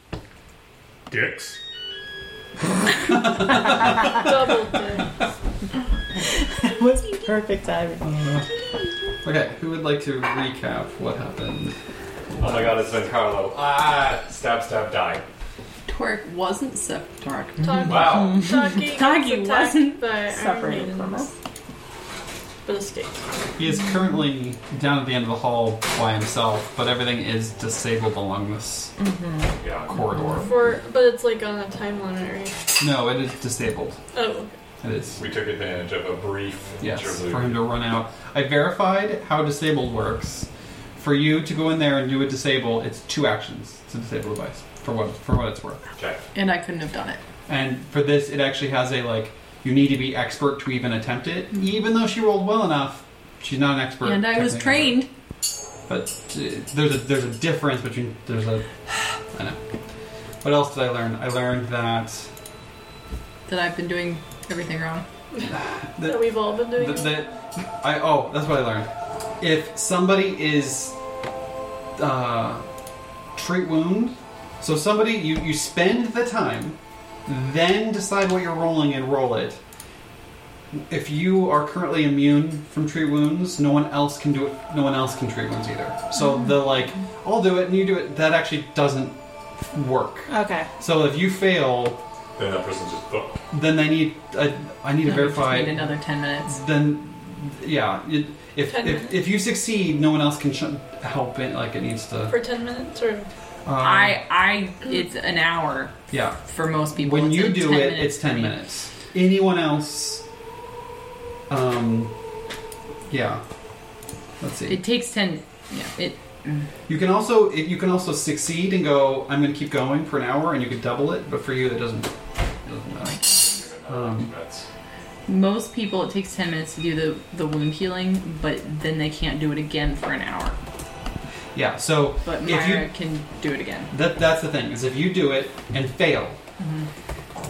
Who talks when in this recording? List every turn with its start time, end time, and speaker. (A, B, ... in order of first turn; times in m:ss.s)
0:01.1-0:01.6 A
0:02.8-0:04.4 B
0:04.1-0:05.1 C
0:06.3-0:08.0 D
0:08.0-0:08.5 B
0:09.2-0:11.8 B
0:12.3-0:13.2 B
0:12.4-0:15.2 A
0:15.9-0:20.0 E
0:17.6-0:21.3 C
0:17.8-0:18.4 A
0:20.3-0:21.3 D
0:22.6-0:23.2 C
0:23.6-0:28.9 B
0:29.0-0:29.5 E
0:29.6-0:30.0 A
0:29.9-0:30.5 B
0:30.4-0:32.6 C
0:32.8-0:34.0 B
0:34.1-0:34.6 C
0:34.8-0:35.2 B
0:35.2-0:37.7 A
0:36.8-0:45.8 B
0:46.0-0:46.2 A
0:46.3-0:47.2 E
0:47.5-0:55.0 B
0:54.0-0:55.1 E
0:55.9-0:58.7 B
0:59.3-0:59.6 B
1:00.4-1:02.3 B
1:03.5-1:05.0 E
1:05.3-1:07.4 C
1:05.5-1:08.9 B
1:09.4-1:10.9 B
1:12.0-1:12.6 B
1:13.3-1:19.6 B
1:20.7-1:29.2 B
1:29.7-1:32.0 B
1:30.3-1:30.7 D
1:32.4-1:33.4 A
1:33.5-1:35.9 B
1:35.0-1:36.6 E
1:36.5-1:42.4 B
1:38.6-1:39.2 C
1:42.3-1:43.3 C
1:43.6-1:44.2 B
1:43.8-1:48.6 E
1:46.1-1:50.2 B
1:51.5-1:52.1 B
1:53.1-1:53.4 B
1:54.4-1:54.8 B
1:54.7-1:56.7 E
1:56.9-2:02.1 B
2:02.6-2:04.3 B
2:03.2-2:04.7 A
2:05.3-2:10.6 E
2:11.5-2:12.9 B
2:12.2-2:13.9 E
2:13.9-2:16.4 B
2:16.6-2:16.9 E